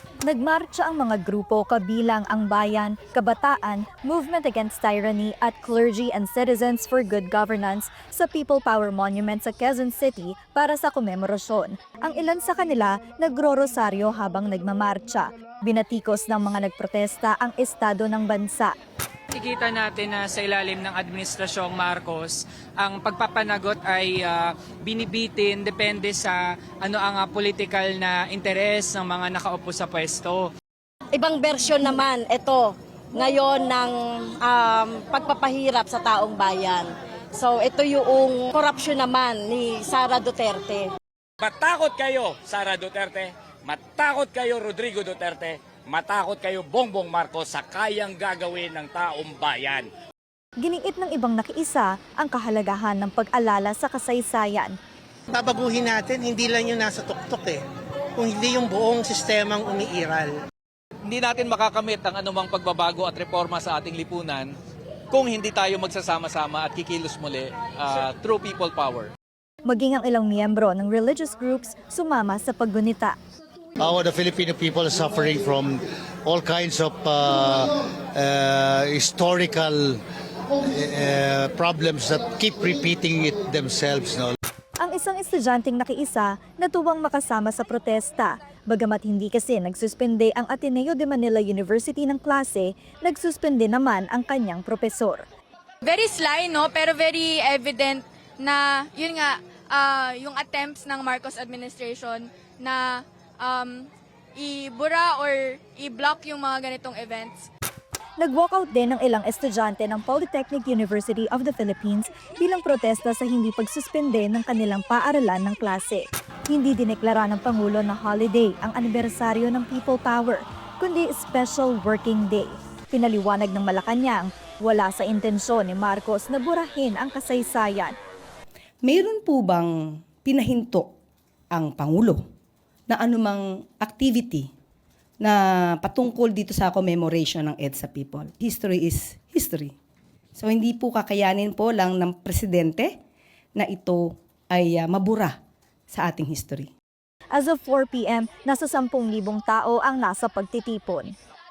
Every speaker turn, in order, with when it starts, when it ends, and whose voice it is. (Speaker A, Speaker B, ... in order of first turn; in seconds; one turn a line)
Speaker A: 0.2-18.7
Speaker B: 19.3-30.5
Speaker C: 31.1-40.9
Speaker D: 41.4-49.9
Speaker A: 50.6-54.7
Speaker E: 55.3-57.6
Speaker E: 58.2-60.4
Speaker F: 61.0-64.5
Speaker F: 65.1-69.1
Speaker A: 69.7-73.1
Speaker G: 73.8-80.0
Speaker G: 80.7-84.3
Speaker A: 84.8-95.2
Speaker H: 95.8-102.8
Speaker H: 103.4-103.7
Speaker H: 104.4-107.4
Speaker A: 108.2-127.9
Speaker I: 128.8-130.9
Speaker I: 131.5-132.2
Speaker I: 132.9-134.5
Speaker I: 135.2-139.7
Speaker I: 140.3-143.0
Speaker I: 143.6-145.4
Speaker I: 145.9-146.7
Speaker A: 147.3-151.1